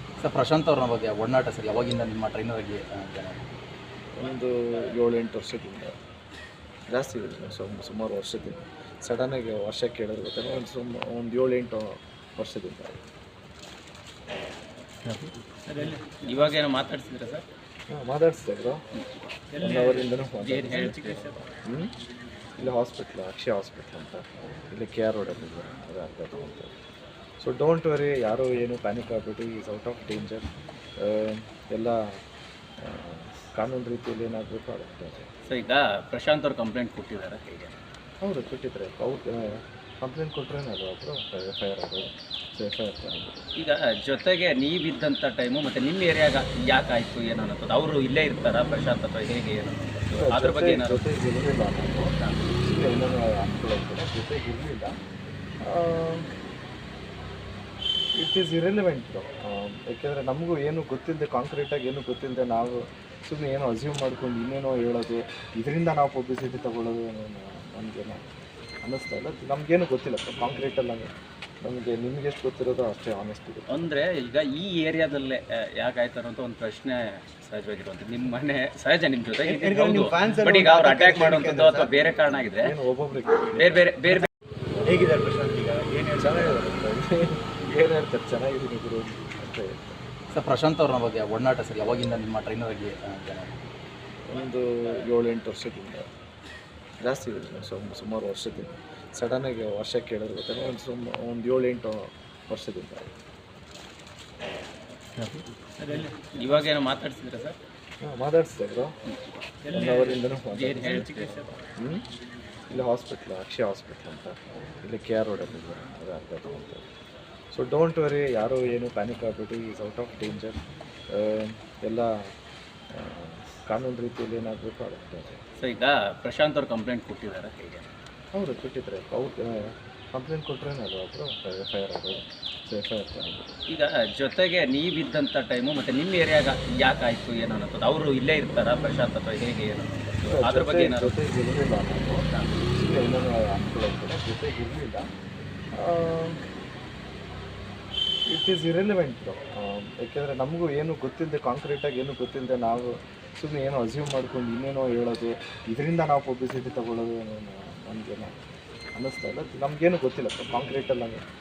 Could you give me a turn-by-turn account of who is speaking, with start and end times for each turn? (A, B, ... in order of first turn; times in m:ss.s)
0:00.2-0:03.4 A
0:04.2-0:05.9 B
0:06.9-0:13.0 B
0:15.1-0:17.4 C
0:17.9-0:18.8 B
0:18.9-0:21.4 C
0:19.6-0:21.9 B
0:22.6-0:26.7 B
0:27.4-0:30.5 B
0:31.0-0:32.0 B
0:32.8-0:35.3 B
0:35.5-0:37.8 C
0:38.2-0:43.4 B
0:43.6-0:51.0 C
0:50.1-0:55.0 B
0:52.1-0:52.5 C
0:55.7-0:56.2 B
0:58.2-1:08.2 B
1:08.8-1:11.1 B
1:11.6-1:13.9 B
1:13.7-1:22.7 C
1:19.4-1:21.9 D
1:22.6-1:24.3 B
1:23.6-1:24.3 C
1:24.8-1:26.7 D
1:26.2-1:30.0 B
1:30.3-1:33.5 A
1:34.3-1:36.0 B
1:37.0-1:43.1 B
1:45.2-1:47.6 C
1:48.0-1:48.9 B
1:49.1-1:51.5 C
1:49.7-1:51.1 B
1:52.7-1:56.9 B
1:57.5-2:00.6 B
2:01.1-2:02.1 B
2:02.9-2:05.4 B
2:05.6-2:07.8 C
2:08.4-2:09.6 B
2:10.1-2:13.5 B
2:13.7-2:21.2 C
2:20.3-2:22.2 B
2:22.8-2:25.1 B
2:25.8-2:26.4 B
2:28.3-2:38.3 B
2:39.0-2:41.2 B